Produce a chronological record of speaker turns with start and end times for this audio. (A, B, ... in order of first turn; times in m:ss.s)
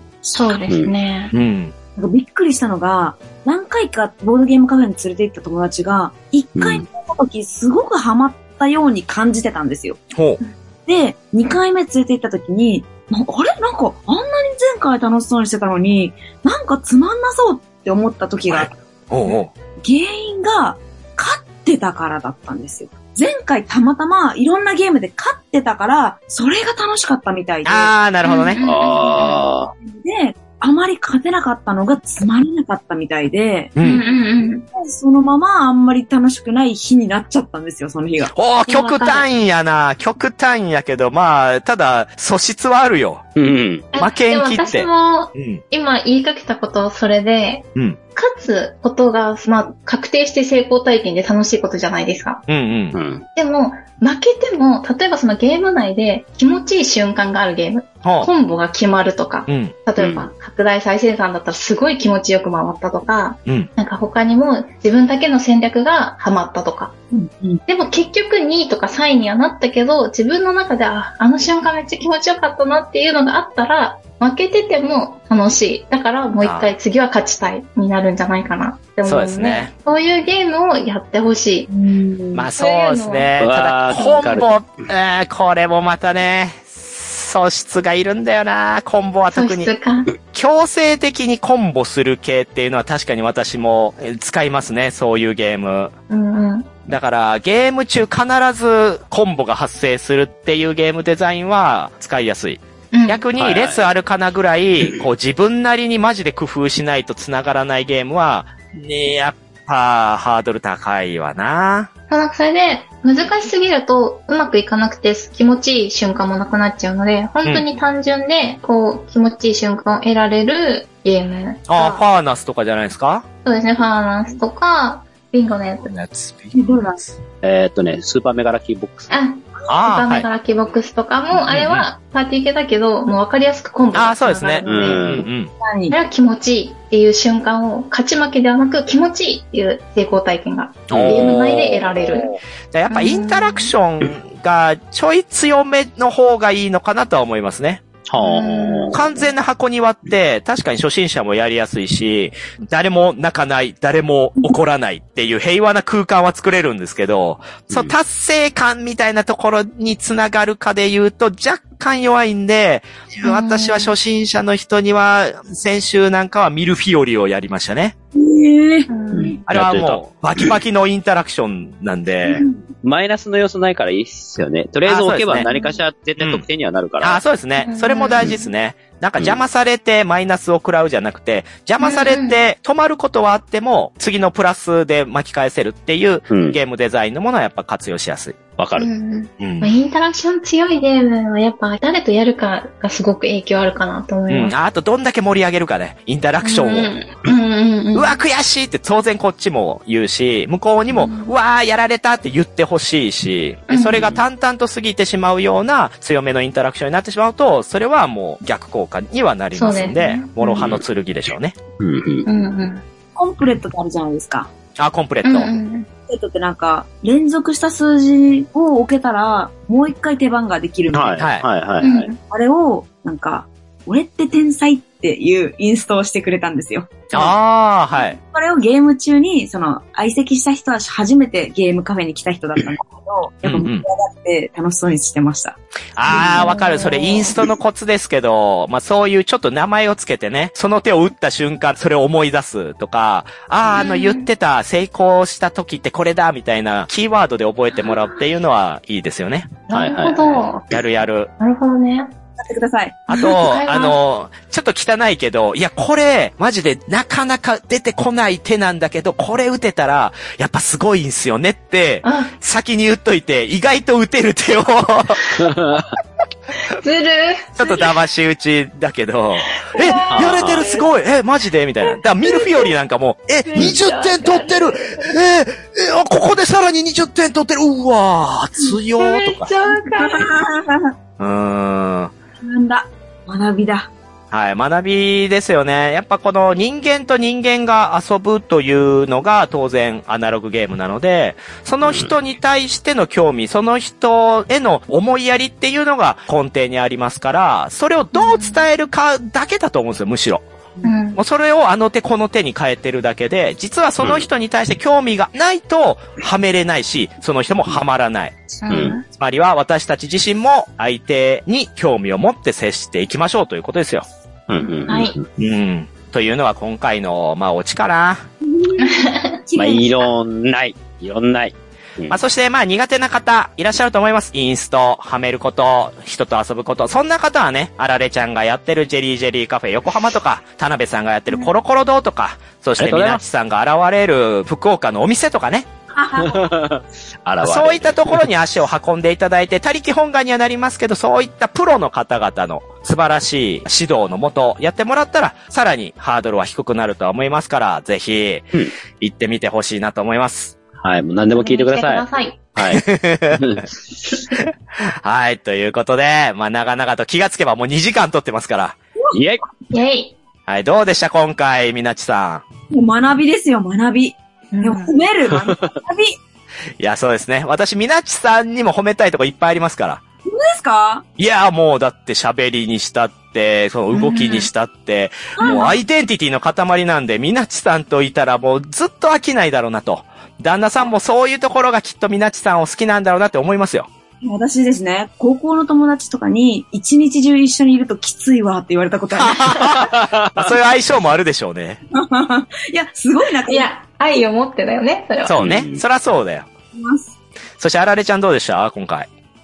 0:00.3-0:01.3 A
0:01.3-0:01.7 B
0:02.0-0:10.0 C
0:06.6-0:06.8 D
0:10.9-0:18.7 C
0:18.5-0:19.5 B
0:19.8-0:27.9 C
0:27.6-0:28.6 B
0:28.2-0:29.4 A
0:28.6-0:29.7 D
0:29.0-0:33.8 C
0:33.8-0:34.0 B
0:33.8-0:34.7 A
0:34.7-0:38.3 C
0:38.3-0:43.3 B
0:38.7-0:39.3 A
0:43.4-0:43.9 D
0:43.9-0:52.4 A
0:44.0-0:45.6 B
0:52.5-0:53.0 B
0:52.9-0:53.2 D
0:53.4-1:06.9 A
0:58.0-0:58.3 B
0:59.5-0:59.8 B
1:00.0-1:00.3 D
1:07.1-1:07.6 C
1:07.7-1:21.7 A
1:16.4-1:16.8 B
1:19.0-1:19.7 B
1:21.7-1:22.5 C
1:22.3-1:29.7 B
1:22.6-1:23.3 A
1:23.4-1:24.5 D
1:29.3-1:30.1 A
1:30.3-1:35.9 B
1:36.1-1:36.7 A
1:36.9-1:51.9 B
1:42.9-1:43.2 A
1:43.4-1:43.8 D
1:52.1-2:02.0 A
2:01.7-2:03.3 B
2:03.4-2:05.9 A
2:05.9-2:07.2 B
2:06.5-2:07.0 C
2:07.4-2:09.2 D
2:09.1-2:15.1 A
2:09.7-2:10.3 B
2:11.5-2:11.9 B
2:13.9-2:15.5 B
2:14.7-2:15.3 D
2:14.7-2:16.0 C
2:15.9-2:22.3 A
2:20.9-2:21.6 B
2:20.9-2:22.4 D
2:22.7-2:27.8 B
2:22.9-2:23.7 A
2:28.1-2:29.0 D
2:28.2-2:28.9 A
2:28.9-2:47.9 B
2:37.7-2:38.0 D
2:43.2-2:43.9 A
2:48.1-2:49.4 C
2:48.9-2:49.4 A
2:49.1-2:50.5 D
2:49.5-2:52.4 B
2:52.2-2:52.6 C
2:52.8-2:57.2 D
2:54.9-2:55.5 B
2:55.4-2:55.8 A
2:56.2-2:56.5 B
2:57.0-3:08.4 B
2:57.6-2:58.5 A
3:01.8-3:02.4 A
3:06.3-3:06.6 D
3:08.6-3:08.9 D
3:08.8-3:14.5 A
3:09.4-3:09.7 B
3:14.3-3:16.9 B
3:16.4-3:18.2 A
3:17.9-3:31.6 B
3:20.9-3:21.3 A
3:23.7-3:24.1 A
3:29.5-3:30.7 A
3:30.6-3:30.8 D
3:31.8-3:32.3 D
3:32.2-3:32.8 A
3:33.2-3:34.5 C
3:34.8-3:35.5 B
3:35.2-3:35.9 A
3:36.1-3:41.2 C
3:40.9-3:42.1 D
3:41.2-3:41.5 B
3:41.8-3:42.2 A
3:42.2-3:47.0 C
3:47.1-3:47.4 D
3:47.1-3:48.2 B
3:48.3-3:55.6 C
3:53.4-3:53.9 B
3:56.0-4:09.5 B
3:56.2-3:57.4 A
4:03.7-4:04.3 A
4:09.7-4:10.6 A
4:09.7-4:10.5 D
4:10.7-4:11.3 B
4:11.4-4:12.1 A
4:12.4-4:13.4 C
4:13.1-4:25.3 B
4:13.2-4:14.0 A
4:22.0-4:22.3 A
4:25.4-4:25.9 D
4:26.7-4:27.9 A
4:27.6-4:39.5 B
4:29.5-4:30.9 A
4:30.1-4:30.8 D
4:31.8-4:32.7 A
4:33.5-4:35.1 A
4:39.0-4:40.4 A
4:39.7-4:40.9 C
4:41.2-4:42.1 B
4:42.4-4:43.9 C
4:44.3-5:00.5 B
4:51.8-4:52.1 D
4:58.1-4:58.6 A
5:00.8-5:01.2 A
5:01.2-5:08.4 B
5:04.0-5:04.3 D
5:08.6-5:09.0 A
5:08.7-5:09.0 D
5:09.0-5:14.1 B
5:14.5-5:15.3 D
5:14.6-5:15.2 A
5:15.4-5:18.2 B
5:18.5-5:20.1 C
5:18.8-5:19.4 A
5:19.6-5:22.2 D
5:22.1-5:35.7 B
5:32.8-5:33.2 D
5:36.0-5:36.5 C
5:36.2-5:38.2 D
5:37.4-5:50.6 B
5:50.8-5:52.0 D
5:51.4-5:52.4 A
5:52.6-5:53.7 D
5:52.6-5:53.6 B
5:54.4-5:58.8 B
5:59.1-5:59.4 D
5:59.7-6:00.1 A
6:00.5-6:02.4 B
6:02.7-6:06.2 C
6:04.5-6:04.9 A
6:06.8-6:10.0 B
6:10.3-6:11.0 C
6:11.2-6:23.9 B
6:13.9-6:14.5 A
6:15.4-6:15.8 C
6:24.2-6:29.9 C
6:29.2-6:31.8 B
6:29.9-6:30.5 D
6:32.0-6:33.7 C
6:33.5-6:35.4 A
6:35.2-6:36.5 B
6:35.4-6:35.8 D
6:36.7-6:37.1 C
6:37.6-6:39.1 B